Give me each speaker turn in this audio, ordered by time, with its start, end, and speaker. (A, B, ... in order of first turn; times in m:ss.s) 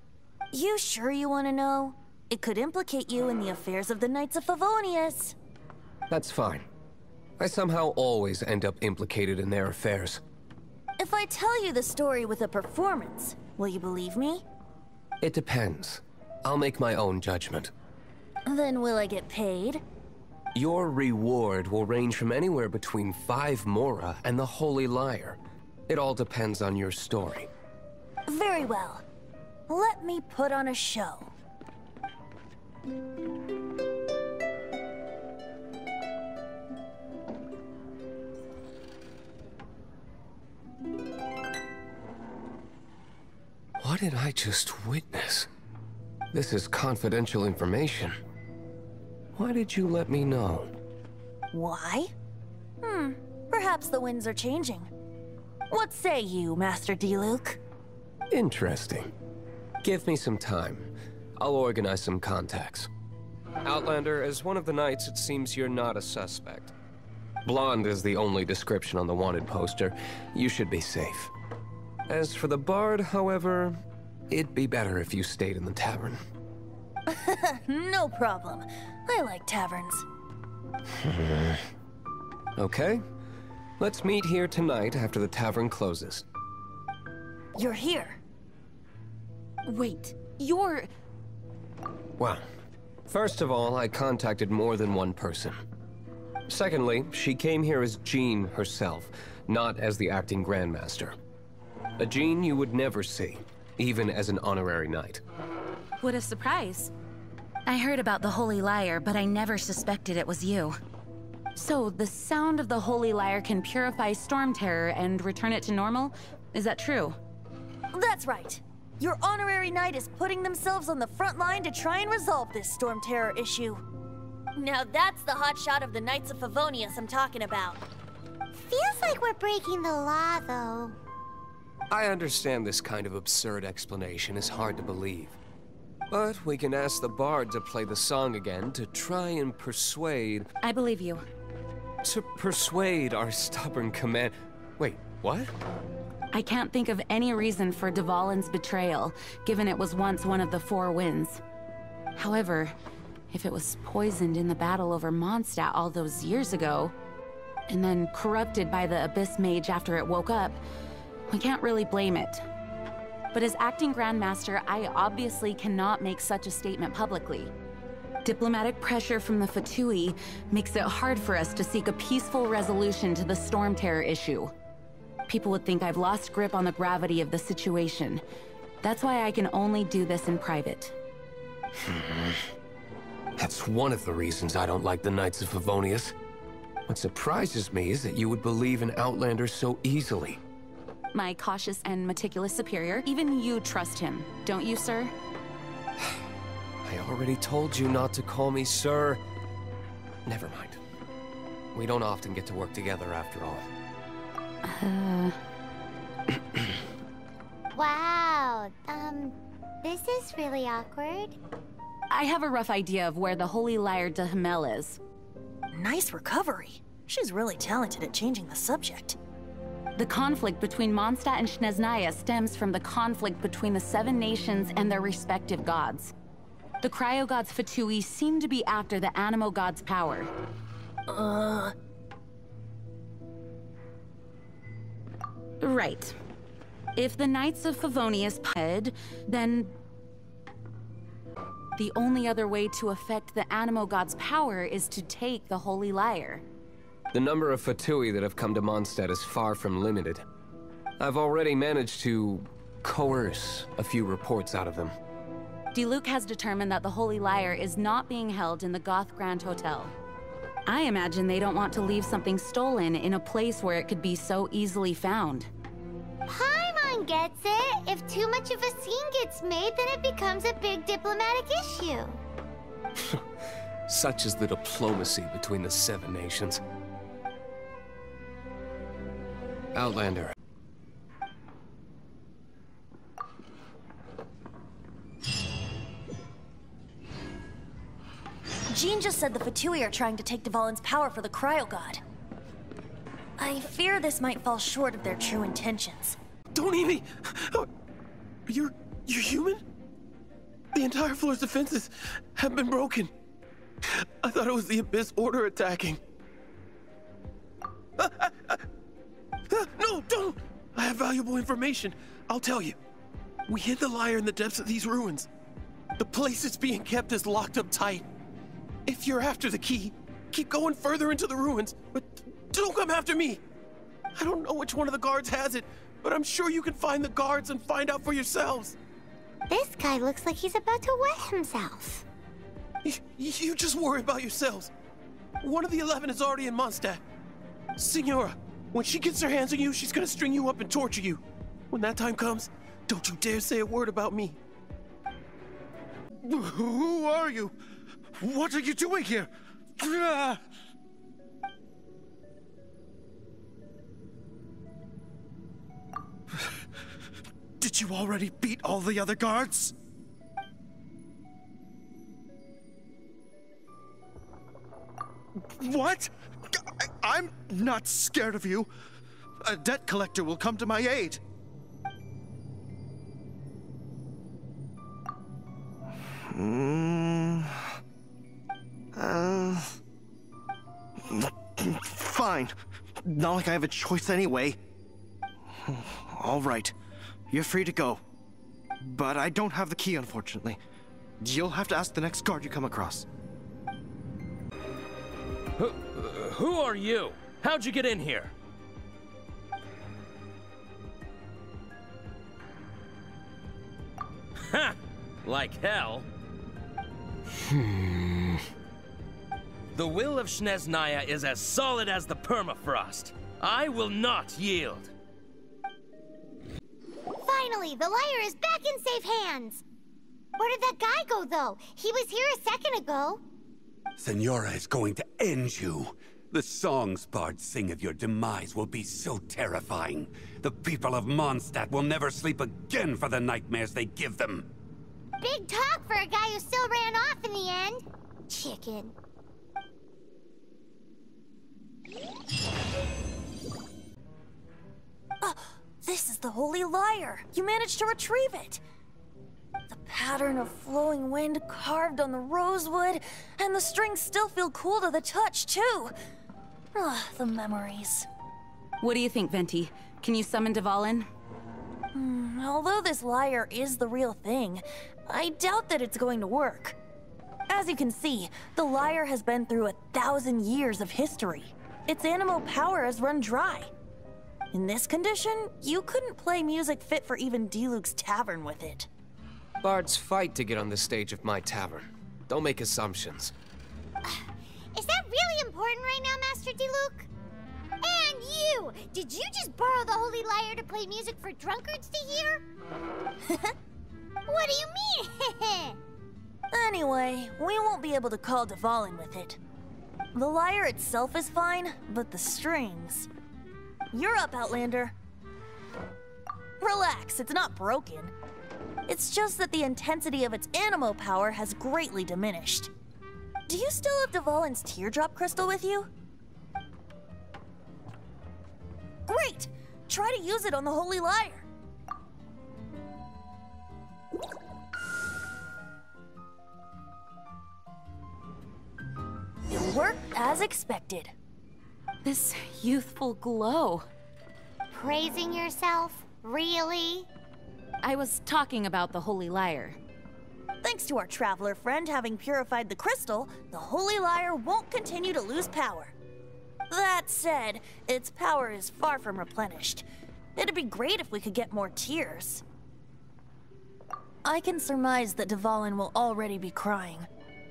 0:00.5-0:05.4 A
0:06.1-0:06.6 B
0:07.4-0:10.2 B
0:11.0-0:14.4 A
0:15.2-0:17.7 B
0:18.4-0:19.8 A
0:20.5-0:27.5 B
0:28.3-0:29.0 A
0:29.7-0:31.3 A
0:43.8-0:45.5 B
0:46.3-0:48.1 B
0:49.4-0:50.7 B
0:51.5-0:52.1 A
0:52.8-0:54.9 A
0:55.7-0:57.6 A
0:58.3-0:59.1 B
0:59.8-1:02.9 B
1:03.6-1:06.7 B
1:07.4-1:11.3 B
1:12.1-1:13.8 B
1:14.3-1:16.2 B
1:17.1-1:20.0 A
1:21.0-1:21.7 B
1:22.6-1:23.0 B
1:23.8-1:26.2 B
1:27.5-1:28.2 A
1:29.7-1:30.9 C
1:32.2-1:32.4 B
1:33.1-1:35.6 B
1:36.5-1:41.2 B
1:42.0-1:45.2 B
1:46.0-1:46.9 C
1:47.6-1:50.8 C
1:51.6-1:57.2 C
1:57.9-2:03.8 A
2:04.5-2:07.8 A
2:08.5-2:10.9 D
2:11.9-2:15.4 B
2:16.1-2:20.5 B
2:20.6-2:21.2 C
2:22.0-2:25.5 B
2:26.3-2:31.4 C
2:32.2-2:32.7 C
2:33.3-2:36.9 C
2:37.7-2:40.6 C
2:41.3-2:42.4 C
2:43.3-2:47.5 C
2:48.2-2:54.5 C
2:55.3-2:58.2 C
2:58.8-3:00.9 C
3:01.8-3:02.4 B
3:03.4-3:06.1 B
3:06.9-3:10.4 B
3:11.1-3:15.1 C
3:16.8-3:19.2 B
3:20.2-3:20.8 B
3:21.7-3:23.6 B
3:24.6-3:25.4 C
3:27.7-3:31.4 D
3:32.1-3:35.0 C
3:35.7-3:39.2 A
3:40.0-3:46.1 C
3:46.8-3:50.3 C
3:51.1-3:51.7 A
3:55.6-3:56.1 C
3:56.9-3:59.7 C
4:01.8-4:06.4 C
4:07.1-4:10.2 B
4:11.0-4:14.9 B
4:15.7-4:19.9 C
4:20.6-4:25.5 C
4:26.3-4:32.2 D
4:33.9-4:36.6 B
4:39.7-4:40.3 B
4:48.7-4:52.0 A
4:53.4-4:56.2 A
4:56.5-4:57.7 E
4:58.5-4:59.6 E
5:00.7-5:03.1 E
5:03.8-5:06.0 E
5:08.0-5:08.6 E
5:09.5-5:12.8 E
5:13.5-5:15.3 E
5:16.0-5:18.0 E
5:18.9-5:23.4 E
5:24.2-5:28.8 E
5:29.5-5:32.0 D
5:32.8-5:34.7 E
5:35.4-5:37.0 E
5:37.8-5:44.4 E
5:46.2-5:47.5 F
5:48.2-5:50.4 F
5:57.6-5:59.7 F
6:05.6-6:08.7 F
6:09.4-6:11.2 F
6:16.3-6:17.6 F
6:18.9-6:19.7 F
6:21.0-6:24.6 F
6:25.6-6:26.7 F
6:27.3-6:28.0 F
6:28.8-6:30.6 F
6:31.2-6:33.0 F
6:35.6-6:38.3 G
6:44.5-6:46.0 G
6:47.6-6:48.3 B
6:49.7-6:54.9 G
6:57.2-6:59.6 D
7:00.4-7:03.2 D
7:04.0-7:14.4 H
7:15.2-7:18.9 D
7:25.2-7:28.6 A
7:29.7-7:35.9 A
7:36.7-7:38.1 A
7:38.8-7:41.1 C
7:41.9-7:46.8 A
7:47.5-7:53.7 A
7:54.5-7:58.9 A
7:59.6-8:03.3 B
8:04.0-8:07.1 D
8:07.8-8:12.4 D
8:13.2-8:13.5 A
8:14.3-8:15.8 D
8:16.5-8:19.4 A
8:20.1-8:23.1 A
8:23.9-8:24.9 A
8:26.6-8:28.1 A
8:28.9-8:32.7 A
8:33.5-8:35.9 A
8:39.1-8:41.4 A
8:49.5-8:51.1 A
8:52.0-8:53.9 C
8:54.7-8:57.1 D
8:57.8-8:59.8 C
9:00.6-9:05.9 A
9:06.7-9:09.8 A
9:10.4-9:12.4 A
9:14.2-9:17.1 A